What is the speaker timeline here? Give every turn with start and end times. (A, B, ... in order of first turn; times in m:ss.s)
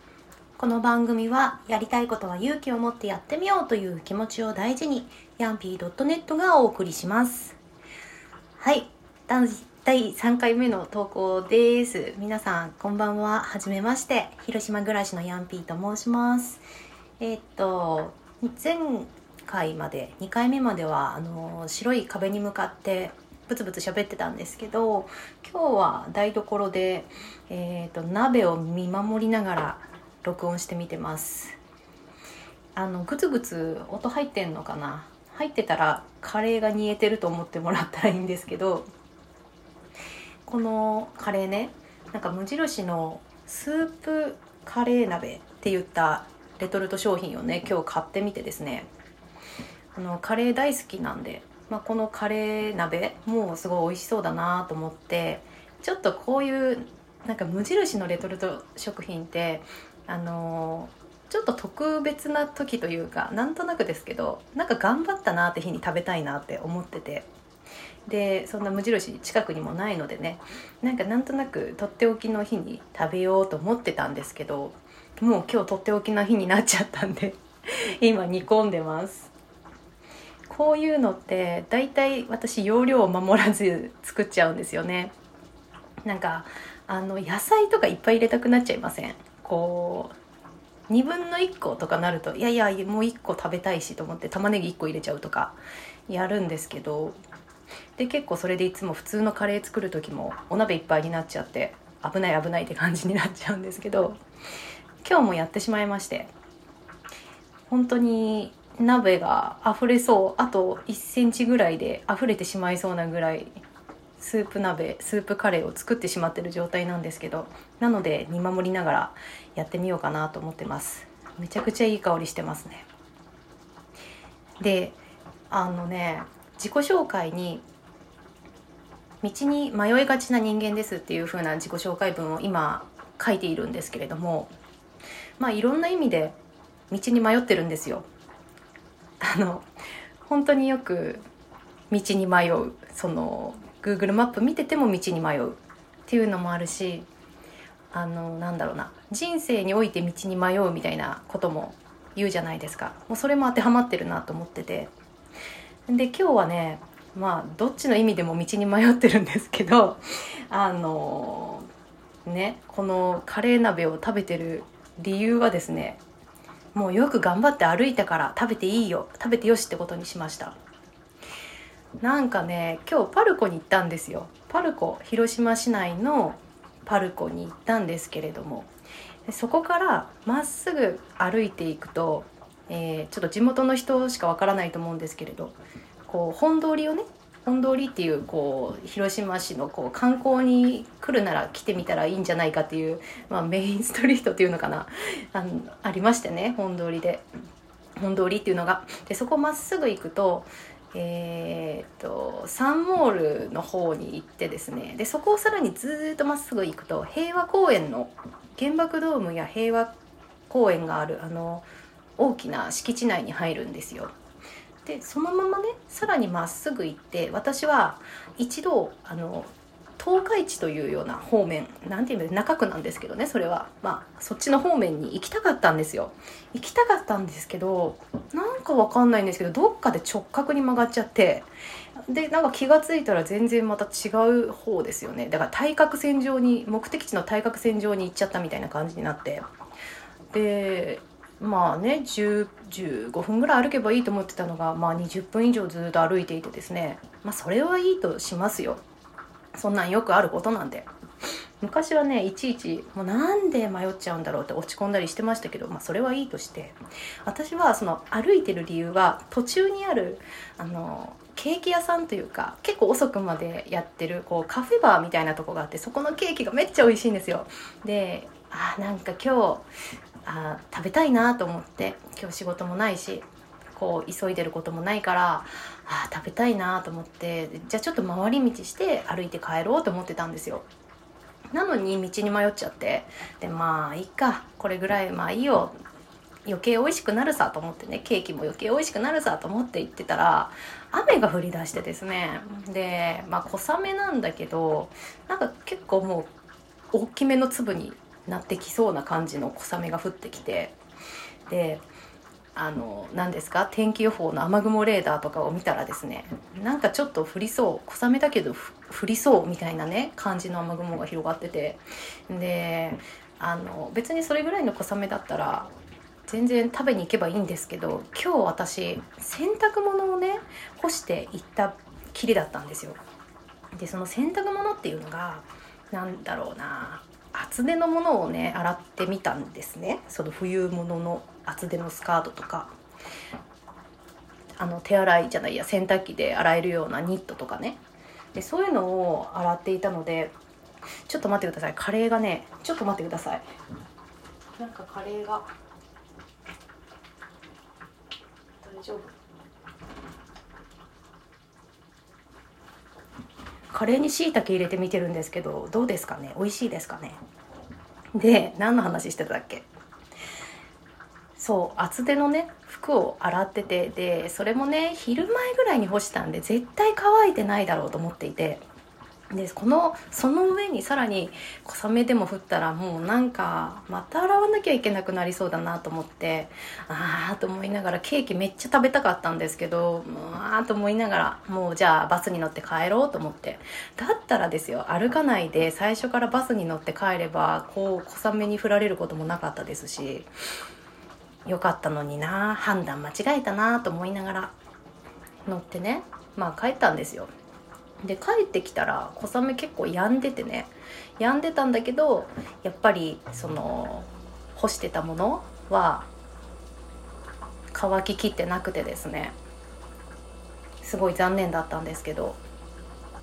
0:00.6-0:07.6 A
0:08.6-0:16.6 A
0:17.2-0:31.6 A
0:32.8-0:38.8 A
0:40.4-0:48.9 A
0:50.0-1:07.3 A
1:08.0-1:19.3 A
1:20.5-1:25.1 A
1:26.0-1:30.1 A
1:30.9-1:37.2 A
1:38.0-1:44.2 A
1:45.0-1:46.3 A
1:47.7-1:53.6 A
1:54.2-2:02.9 A
2:04.6-2:05.0 A
2:05.5-2:07.6 A
2:09.2-2:14.5 A
2:15.4-2:16.4 A
2:16.9-2:18.1 A
2:19.2-2:19.7 A
2:20.2-2:21.2 A
2:21.9-2:27.1 A
2:27.9-2:34.9 A
2:35.9-2:41.7 A
2:42.2-2:46.0 A
2:46.7-2:50.5 A
2:52.0-2:58.7 A
2:59.3-3:17.2 A
3:18.0-3:29.9 A
3:30.5-3:31.7 A
3:32.2-3:34.1 A
3:34.8-3:51.5 A
3:52.1-3:59.4 A
4:00.3-4:08.8 A
4:09.5-4:10.9 A
4:11.6-4:29.6 A
4:30.2-4:40.6 A
4:41.5-4:45.7 A
4:46.4-4:56.3 A
4:56.9-5:00.8 A
5:01.5-5:01.8 A
5:02.6-5:15.7 A
5:16.2-5:23.0 A
5:23.7-5:32.7 A
5:34.6-5:37.8 A
5:38.3-5:40.3 A
5:41.1-5:43.4 A
5:44.6-5:45.5 A
5:48.6-5:49.1 A
5:53.7-5:57.2 A
5:58.1-5:59.6 A
6:01.4-6:08.6 A
6:09.3-6:30.3 A
6:31.4-6:34.5 A
6:35.4-6:37.3 A
6:38.0-6:46.1 A
6:47.7-6:49.4 A
6:50.8-6:52.4 A